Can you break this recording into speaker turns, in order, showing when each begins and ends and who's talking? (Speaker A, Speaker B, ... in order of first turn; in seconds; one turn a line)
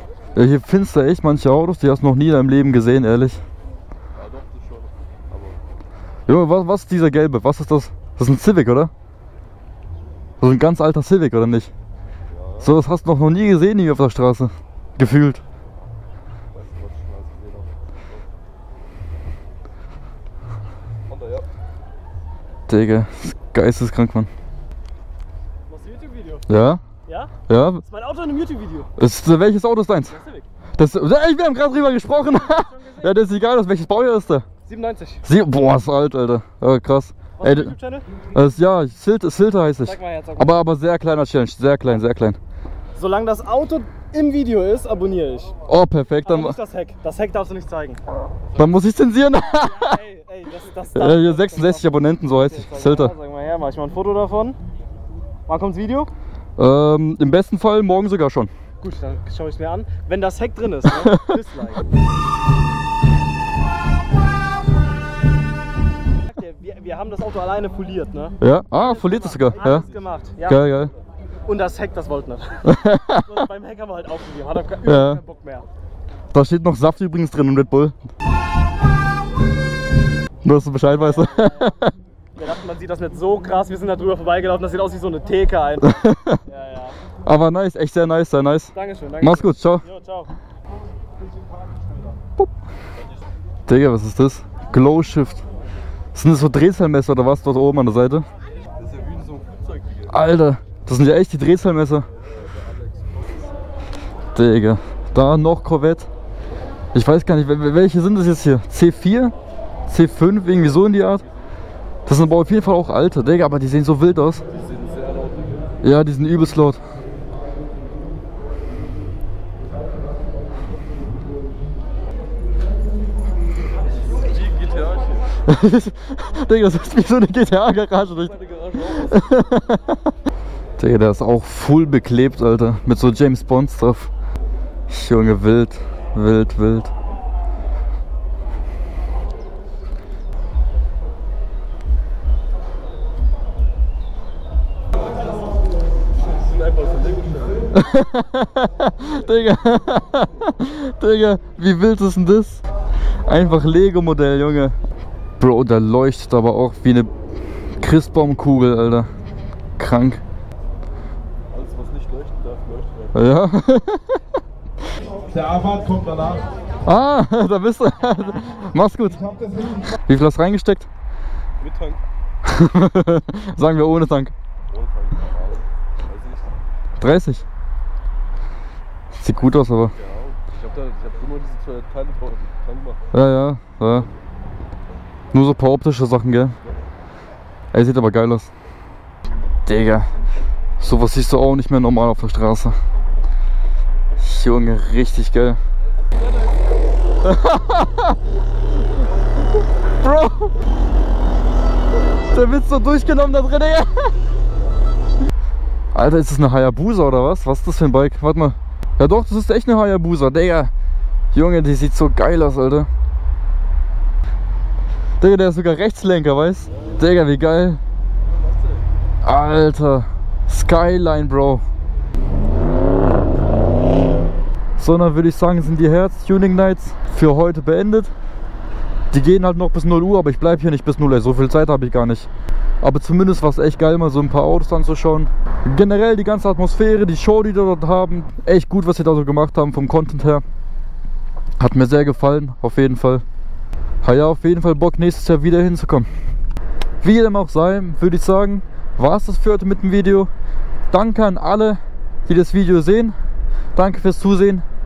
Speaker A: 0.3-3.4
Speaker B: 4.1-5.6
Speaker A: 6.3-8.9
Speaker A: 10.4-11.7
Speaker B: 12.3-12.7
Speaker A: 12.6-15.4
Speaker B: 16.5-18.2
Speaker B: 21.1-21.5
Speaker A: 22.7-24.3
Speaker C: 25.7-26.4
Speaker A: 26.5-26.8
Speaker C: 27.1-27.3
Speaker A: 27.5-27.8
Speaker C: 27.8-28.9
Speaker A: 29.0-30.1
Speaker C: 30.1-30.5
Speaker A: 30.8-34.5
Speaker C: 32.3-33.1
Speaker C: 34.6-35.2
Speaker A: 35.2-37.7
Speaker C: 37.4-38.1
Speaker A: 38.3-42.4
Speaker C: 39.8-40.5
Speaker C: 43.0-45.5
Speaker A: 45.7-46.5
Speaker C: 46.2-48.0
Speaker A: 48.5-50.0
Speaker C: 49.6-54.6
Speaker A: 50.9-53.1
Speaker C: 55.5-56.1
Speaker A: 56.6-58.5
Speaker C: 58.8-61.8
Speaker A: 60.9-61.4
Speaker C: 66.3-70.7
Speaker A: 68.4-69.8
Speaker B: 69.6-70.3
Speaker A: 70.4-70.9
Speaker C: 71.5-75.7
Speaker A: 72.6-73.3
Speaker A: 74.8-75.2
Speaker A: 76.3-77.9
Speaker A: 80.4-81.9
Speaker C: 80.9-81.7
Speaker C: 82.3-87.0
Speaker A: 85.8-86.4
Speaker A: 87.2-89.8
Speaker C: 88.7-90.3
Speaker A: 93.7-95.4
Speaker A: 96.1-98.2
Speaker B: 98.8-100.2
Speaker A: 100.1-102.1
Speaker A: 104.3-106.1
Speaker A: 106.9-109.3
Speaker A: 109.9-111.2
Speaker B: 110.8-111.3
Speaker A: 112.0-114.4
Speaker B: 114.5-115.8
Speaker A: 115.8-116.8
Speaker B: 124.1-125.4
Speaker A: 125.5-128.3
Speaker B: 128.1-129.5
Speaker A: 128.9-130.1
Speaker A: 130.8-134.1
Speaker A: 134.9-136.9
Speaker B: 146.1-147.7
Speaker A: 147.7-152.6
Speaker A: 153.2-154.7
Speaker A: 155.4-157.1
Speaker A: 157.8-159.1
Speaker A: 159.8-160.2
Speaker B: 161.5-163.2
Speaker A: 163.1-164.2
Speaker A: 166.8-170.9
Speaker B: 171.6-172.0
Speaker A: 172.4-174.3
Speaker B: 174.7-176.6
Speaker A: 177.0-177.4
Speaker A: 179.2-179.9
Speaker B: 179.8-183.1
Speaker A: 183.1-184.1
Speaker A: 185.3-186.5
Speaker A: 187.7-188.5
Speaker A: 189.7-190.1
Speaker A: 190.8-192.7
Speaker A: 194.2-195.6
Speaker B: 195.9-196.6
Speaker A: 197.2-198.2
Speaker A: 200.0-200.5
Speaker A: 202.3-204.1
Speaker A: 205.9-210.7
Speaker A: 211.3-212.9
Speaker A: 215.2-217.8
Speaker B: 216.7-217.0
Speaker B: 218.2-218.9
Speaker A: 219.2-221.6
Speaker A: 224.8-228.1
Speaker A: 229.1-232.3
Speaker A: 232.8-240.4
Speaker A: 241.6-243.2
Speaker A: 244.0-246.1
Speaker A: 247.0-250.3
Speaker A: 250.9-253.1
Speaker A: 253.8-254.6